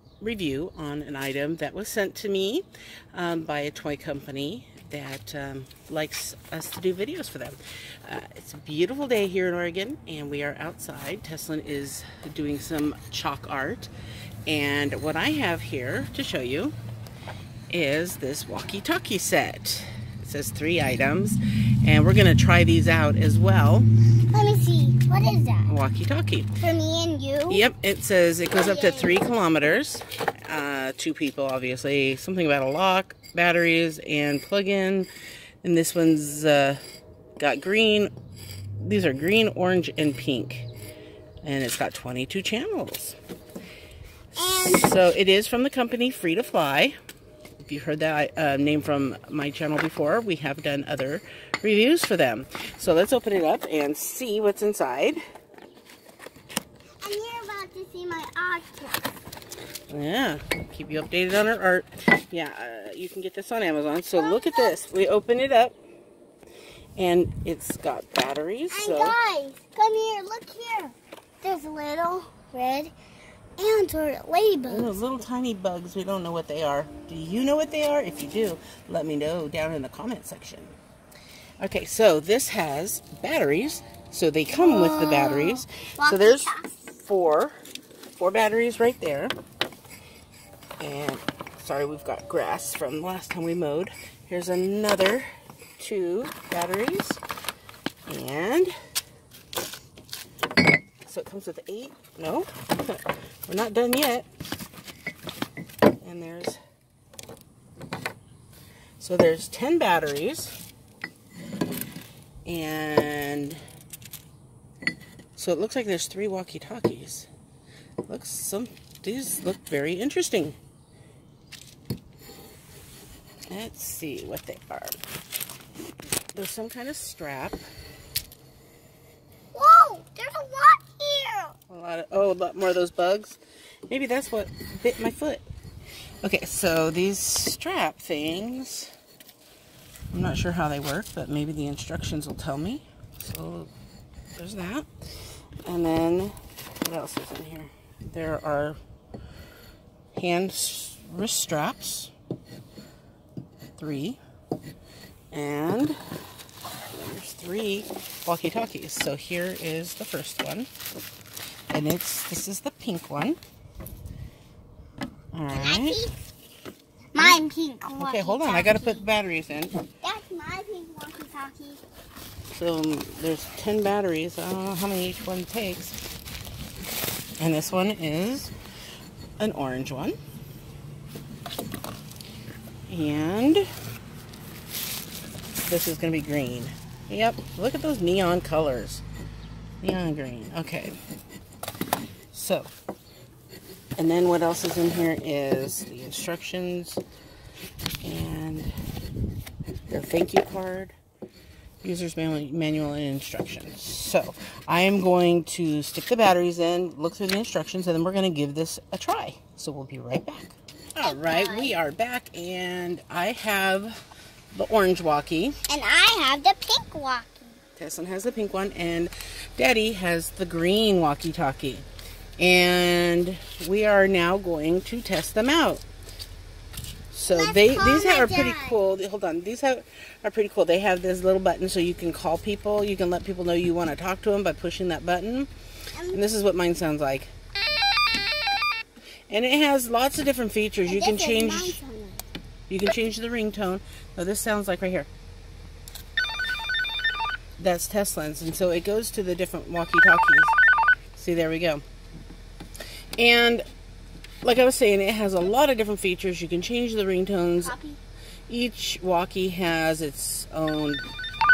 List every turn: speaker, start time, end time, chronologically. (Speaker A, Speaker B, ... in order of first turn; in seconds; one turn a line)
Speaker A: 0.2-13.9
Speaker A: 14.5-16.8
Speaker A: 17.7-23.9
Speaker B: 24.3-25.7
Speaker A: 25.7-26.6
Speaker B: 26.6-27.6
Speaker A: 27.5-35.1
Speaker B: 28.5-29.3
Speaker A: 35.6-36.8
Speaker A: 37.4-38.1
Speaker A: 38.8-40.7
Speaker A: 41.4-43.2
Speaker B: 44.4-44.9
Speaker A: 44.5-46.9
Speaker A: 47.6-55.2
Speaker B: 57.0-59.1
Speaker A: 59.9-65.8
Speaker B: 64.1-64.8
Speaker A: 67.0-69.2
Speaker B: 68.7-72.9
Speaker B: 73.6-74.9
Speaker A: 74.7-80.8
Speaker A: 81.6-87.5
Speaker B: 84.5-86.8
Speaker A: 88.2-89.3
Speaker A: 90.8-95.3
Speaker A: 95.8-97.2
Speaker A: 98.1-98.7
Speaker A: 101.0-104.3
Speaker A: 106.0-106.6
Speaker A: 109.0-110.5
Speaker A: 112.5-113.6
Speaker A: 115.4-117.3
Speaker A: 118.1-120.6
Speaker A: 123.5-125.0
Speaker A: 126.3-127.6
Speaker B: 129.5-131.6
Speaker A: 131.7-135.4
Speaker A: 136.2-138.9
Speaker A: 140.1-143.7
Speaker A: 144.4-144.9
Speaker A: 145.7-148.8
Speaker A: 150.2-152.1
Speaker A: 153.8-154.2
Speaker A: 155.3-156.0
Speaker A: 156.9-160.7
Speaker A: 161.7-163.4
Speaker A: 165.3-166.0
Speaker B: 165.5-166.2
Speaker B: 167.1-169.1
Speaker A: 167.9-169.7
Speaker B: 170.0-171.8
Speaker A: 172.5-176.0
Speaker A: 177.4-178.5
Speaker A: 179.4-180.2
Speaker A: 182.9-183.7
Speaker A: 185.7-189.0
Speaker A: 189.8-191.0
Speaker A: 192.3-192.7
Speaker A: 194.0-197.0
Speaker A: 198.0-198.7
Speaker A: 199.9-200.9
Speaker A: 201.8-214.0
Speaker B: 211.0-211.8
Speaker A: 214.5-215.6
Speaker B: 215.7-217.6
Speaker A: 217.8-221.9
Speaker A: 222.4-225.8
Speaker A: 227.1-235.5
Speaker B: 227.3-228.8
Speaker B: 236.0-236.2
Speaker A: 236.1-237.3
Speaker A: 239.3-241.8
Speaker B: 240.9-242.2
Speaker A: 242.7-245.1
Speaker A: 247.6-250.6
Speaker A: 251.2-251.8
Speaker A: 253.2-253.6
Speaker A: 254.4-257.8
Speaker B: 257.6-258.0
Speaker A: 258.5-261.1